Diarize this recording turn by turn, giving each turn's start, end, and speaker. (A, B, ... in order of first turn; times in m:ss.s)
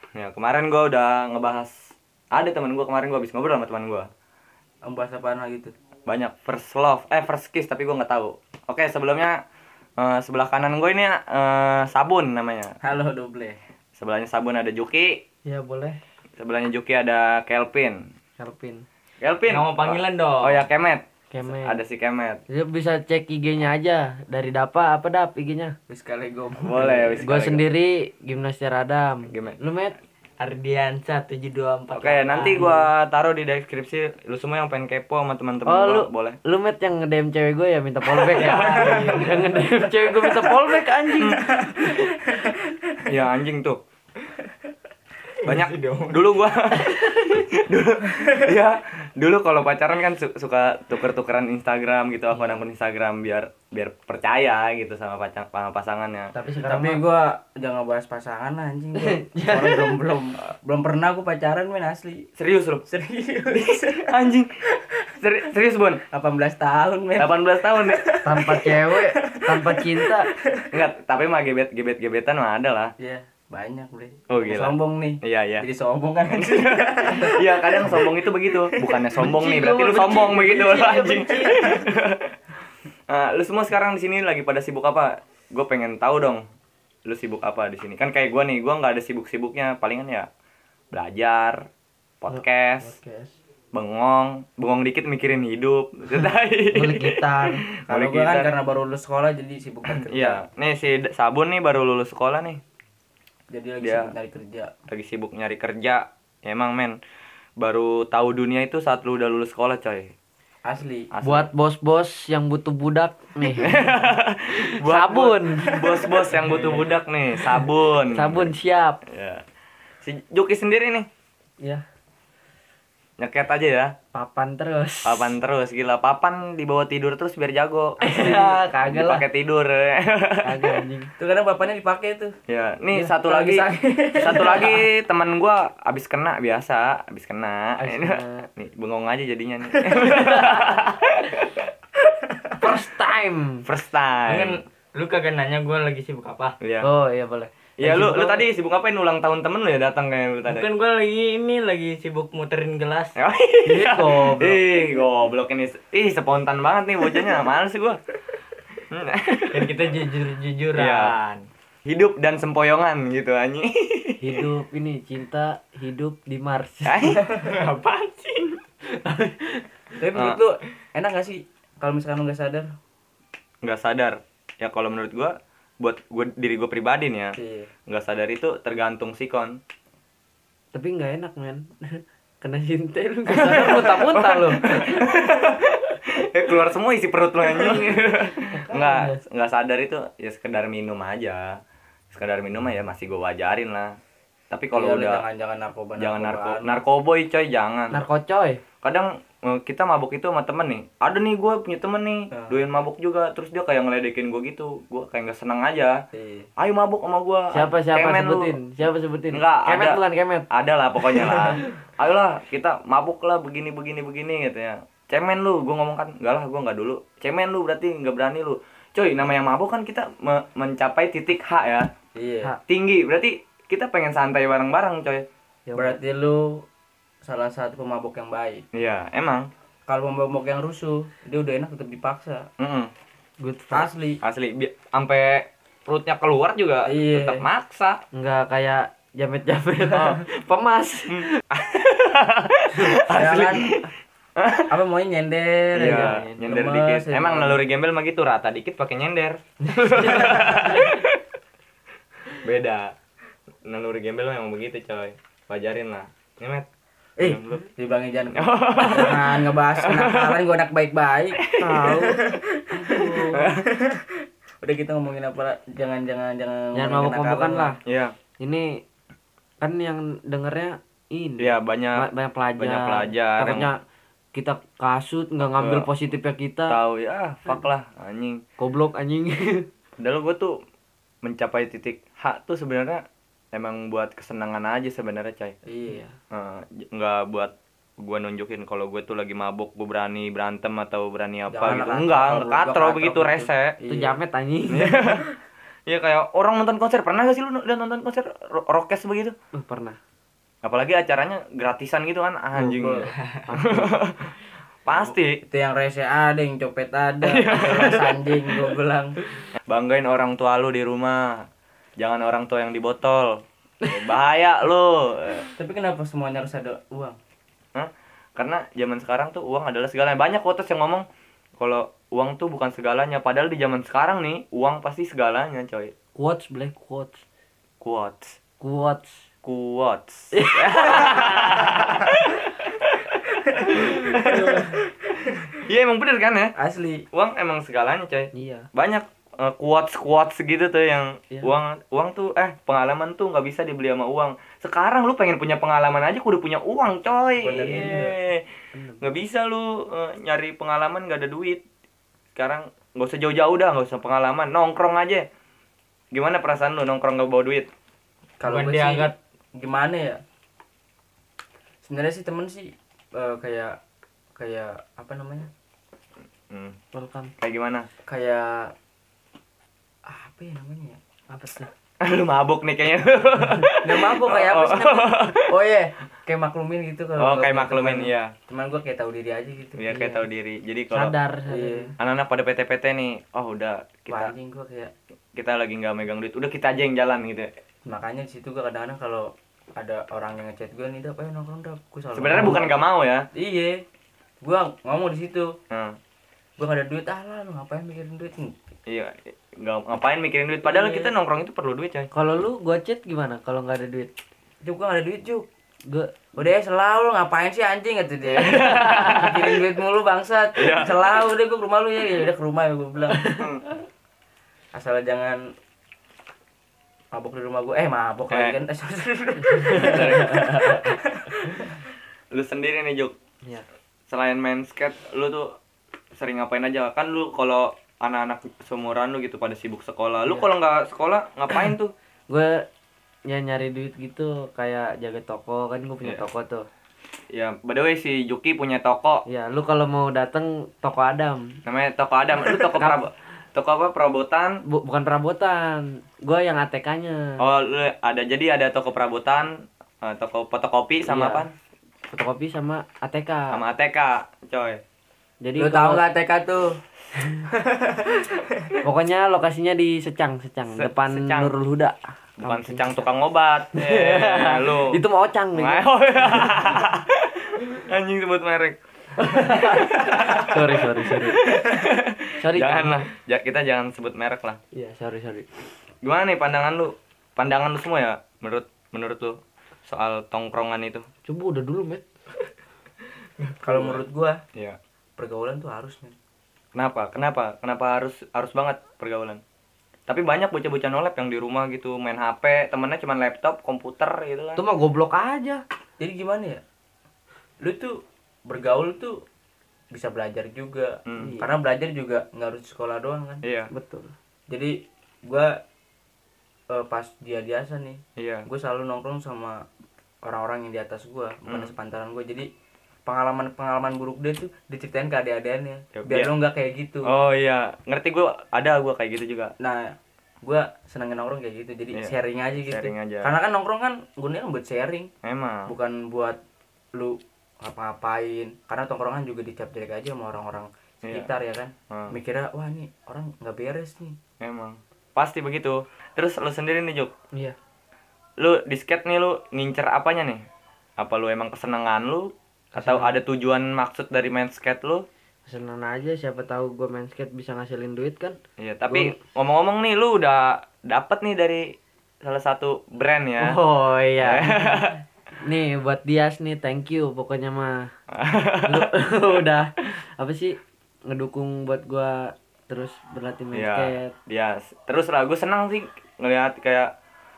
0:00.2-0:04.1 A
0:04.8-0:05.7 B
0:06.1-0:09.4 A
0:10.0-0:12.8 A
0:12.8-0:13.6 B
0:14.0-0:15.2 A
0:15.4-0:16.0 C
0:16.4-0:18.1 A
0:18.4-0:18.8 C
0:19.2-0:22.4 A
0:19.5-0:20.6 D
0:21.3-0:21.8 C
0:22.5-0:25.7 C
0:25.9-0:27.3 B
0:26.6-0:27.6 A
0:27.2-0:30.0 C
0:29.3-0:29.6 A
0:30.4-0:32.7 D
0:31.9-0:36.4 A
0:32.4-0:32.9 C
0:35.7-0:42.2 C
0:38.4-0:39.6 D
0:38.4-0:39.1 A
0:38.5-0:39.1 B
0:41.2-0:41.6 A
0:41.4-0:42.7 B
0:43.0-0:43.8 A
0:45.4-0:46.2 D
0:45.4-0:56.3 A
0:52.3-0:52.6 C
0:56.3-0:57.0 C
0:56.6-1:02.3 B
0:59.0-1:00.1 C
1:02.4-1:02.8 A
1:02.9-1:04.1 B
1:03.5-1:04.5 A
1:05.2-1:06.0 A
1:06.1-1:10.7 B
1:07.2-1:08.1 A
1:08.2-1:10.3 C
1:10.7-1:12.9 A
1:13.0-1:19.1 B
1:14.3-1:15.7 A
1:16.3-1:22.4 A
1:19.2-1:21.8 C
1:21.6-1:21.8 B
1:23.1-1:26.4 A
1:27.1-1:30.3 A
1:30.9-1:31.6 A
1:32.2-1:33.0 A
1:32.3-1:33.3 C
1:33.7-1:38.5 A
1:36.7-1:37.6 C
1:37.9-1:40.4 B
1:40.0-1:42.6 A
1:43.5-1:44.7 B
1:43.8-1:44.1 A
1:44.9-1:47.0 A
1:47.6-1:50.1 A
1:50.6-1:51.1 B
1:51.1-1:51.5 A
1:51.2-1:53.9 C
1:53.4-1:59.4 A
1:54.5-1:56.0 C
1:55.7-1:56.3 B
1:56.4-1:56.8 D
1:58.0-1:59.0 C
2:00.0-2:01.1 A
2:03.2-2:04.0 A
2:04.1-2:05.3 C
2:05.0-2:10.8 A
2:08.0-2:09.2 C
2:10.4-2:11.1 C
2:11.2-2:12.4 B
2:12.5-2:21.7 A
2:13.2-2:14.8 B
2:17.8-2:18.5 C
2:19.9-2:20.2 B
2:22.6-2:23.7 C
2:23.6-2:24.6 A
2:24.3-2:26.6 D
2:26.6-2:26.9 A
2:26.8-2:28.4 C
2:27.8-2:30.7 A
2:30.4-2:33.2 D
2:33.2-2:38.0 A
2:33.7-2:34.6 C
2:38.9-2:39.8 A
2:39.5-2:41.5 D
2:40.8-2:41.2 A
2:41.9-2:44.4 A
2:44.2-2:47.1 C
2:46.8-2:47.3 A
2:47.3-2:48.6 D
2:50.0-2:52.7 B
2:50.1-2:50.4 A
2:53.6-2:59.6 A
2:57.4-2:57.7 B
3:00.7-3:05.1 C
3:03.3-3:11.6 A
3:08.5-3:09.2 C
3:12.1-3:14.0 A
3:14.5-3:15.2 A
3:14.7-3:16.8 B
3:16.0-3:18.0 A
3:17.9-3:18.6 C
3:18.8-3:26.0 A
3:22.3-3:22.6 B
3:26.1-3:26.5 B
3:26.6-3:28.6 A
3:27.5-3:30.5 C
3:29.3-3:41.9 A
3:42.2-3:42.6 B
3:42.7-3:45.3 A
3:45.7-3:46.0 C
3:45.8-3:46.6 B
3:47.2-3:48.6 B
3:48.7-3:49.5 A
3:49.9-3:52.5 B
3:52.6-3:52.9 A
3:53.4-3:53.9 C
3:53.7-3:54.2 B
3:54.2-3:58.0 A
3:56.9-3:57.4 B
3:58.1-4:01.4 C
3:59.9-4:00.2 A
4:01.1-4:04.7 A
4:03.1-4:03.8 B
4:04.7-4:07.6 B
4:05.7-4:11.2 A
4:05.8-4:06.4 C
4:09.7-4:11.0 C
4:12.4-4:13.0 A
4:13.7-4:16.7 A
4:17.2-4:27.8 B
4:17.2-4:17.6 A
4:18.3-4:20.4 A
4:21.4-4:21.9 A
4:21.6-4:23.4 C
4:23.3-4:23.7 A
4:26.7-4:27.8 C
4:27.8-4:28.2 A
4:28.4-4:28.8 C
4:29.6-4:33.8 C
4:31.4-4:33.7 A
4:34.3-4:36.8 C
4:35.6-4:35.9 A
4:36.7-4:38.4 A
4:38.6-4:39.7 C
4:40.0-4:40.6 A
4:41.2-4:45.6 A
4:45.7-4:46.0 B
4:45.9-4:46.2 C
4:46.3-4:53.8 A
4:51.5-4:54.2 B
4:53.9-4:55.2 C
4:54.7-4:55.3 A
4:55.9-4:59.4 A
4:59.5-5:00.0 C
5:00.6-5:05.4 A
5:02.6-5:03.9 B
5:03.2-5:03.4 D
5:05.4-5:09.2 B
5:07.2-5:08.1 A
5:09.6-5:11.5 A
5:12.0-5:15.5 A
5:15.6-5:17.2 B
5:17.7-5:21.0 A
5:21.6-5:25.9 A
5:26.2-5:27.2 C
5:27.8-5:28.4 A
5:28.6-5:29.3 C
5:29.4-5:34.6 A
5:30.3-5:31.8 C
5:33.7-5:34.8 C
5:35.2-5:35.5 B
5:35.5-5:36.6 A
5:36.6-5:37.1 B
5:37.1-5:48.4 A
5:38.3-5:38.7 C
5:47.4-5:48.2 B
5:47.6-5:48.1 C
5:48.7-5:49.1 C
5:49.0-5:51.6 A
5:52.4-5:55.3 A
5:56.1-5:57.7 A
5:58.4-6:00.2 B
5:58.4-5:59.1 D
6:01.8-6:03.8 B
6:04.4-6:05.5 B
6:06.5-6:06.8 A
6:06.9-6:07.3 C
6:07.4-6:07.9 A
6:08.1-6:08.7 B
6:10.1-6:11.0 B
6:11.3-6:11.7 C
6:12.0-6:15.5 A
6:13.8-6:19.8 B
6:17.2-6:18.3 A
6:19.8-6:21.2 A
6:19.9-6:20.2 C
6:20.9-6:21.9 C
6:21.5-6:21.9 B
6:22.0-6:24.4 A
6:24.1-6:24.9 B
6:25.4-6:27.5 A
6:27.9-6:32.8 B
6:32.1-6:33.3 A
6:32.3-6:32.6 C
6:33.3-6:33.8 B
6:34.4-6:35.6 B
6:35.7-6:36.0 A
6:36.6-6:38.6 B
6:38.9-6:42.1 A
6:40.6-6:41.1 C
6:42.1-6:44.1 C
6:44.6-6:45.5 B
6:45.9-6:46.3 C
6:46.4-6:53.3 B
6:48.3-6:49.6 A
6:48.5-6:49.3 C
6:50.6-6:51.2 A
6:53.2-6:53.5 C
6:53.2-6:53.6 A
6:54.7-6:55.5 B
6:57.1-7:01.7 B
6:58.3-6:58.6 A
6:59.5-7:01.0 C
6:59.7-7:00.7 A
7:02.3-7:03.2 A
7:04.1-7:05.6 A
7:06.2-7:11.9 A
7:12.3-7:12.6 C
7:13.3-7:16.7 C
7:17.3-7:19.2 A
7:19.3-7:21.6 C
7:21.6-7:24.6 A
7:22.4-7:23.0 C
7:24.6-7:27.4 C
7:27.4-7:31.5 A
7:31.0-7:31.4 C
7:32.1-7:33.6 C
7:33.5-7:34.8 A
7:35.4-7:36.0 C
7:35.6-7:36.8 B
7:37.2-7:37.4 C
7:37.5-7:38.8 B
7:38.8-7:43.0 C
7:40.7-7:41.6 A
7:42.4-7:45.0 A
7:43.7-7:46.7 C
7:45.5-7:48.8 A
7:49.2-7:51.5 C
7:49.3-7:54.6 A
7:52.4-7:53.0 C
7:54.7-7:55.6 C
7:56.0-8:01.1 A
8:01.2-8:02.0 C
8:03.4-8:04.0 D
8:03.6-8:04.4 B
8:04.5-8:04.8 A
8:05.2-8:06.2 B
8:06.8-8:09.4 A
8:10.1-8:14.6 A
8:14.6-8:15.6 C
8:16.0-8:16.6 B
8:17.6-8:19.2 B
8:19.9-8:23.4 B
8:21.1-8:21.4 A
8:21.2-8:21.5 C
8:23.4-8:23.7 A
8:23.7-8:24.1 C
8:24.5-8:25.6 B
8:26.7-8:29.6 B
8:28.2-8:28.5 A
8:30.2-8:32.5 B
8:31.5-8:31.7 A
8:33.0-8:37.1 B
8:35.9-8:36.3 A
8:37.0-8:39.5 A
8:39.6-8:45.1 B
8:41.9-8:43.3 A
8:45.2-8:45.7 A
8:45.7-8:46.4 B
8:46.9-8:54.2 B
8:51.0-8:51.3 A
8:51.9-8:52.2 A
8:54.4-8:57.1 A
8:58.4-9:00.4 A
9:01.0-9:05.0 A
9:02.8-9:03.1 C
9:05.5-9:09.2 C
9:08.6-9:13.6 A
9:13.4-9:17.9 C
9:14.2-9:15.0 A
9:18.1-9:18.9 A
9:18.6-9:24.1 C
9:23.5-9:26.9 A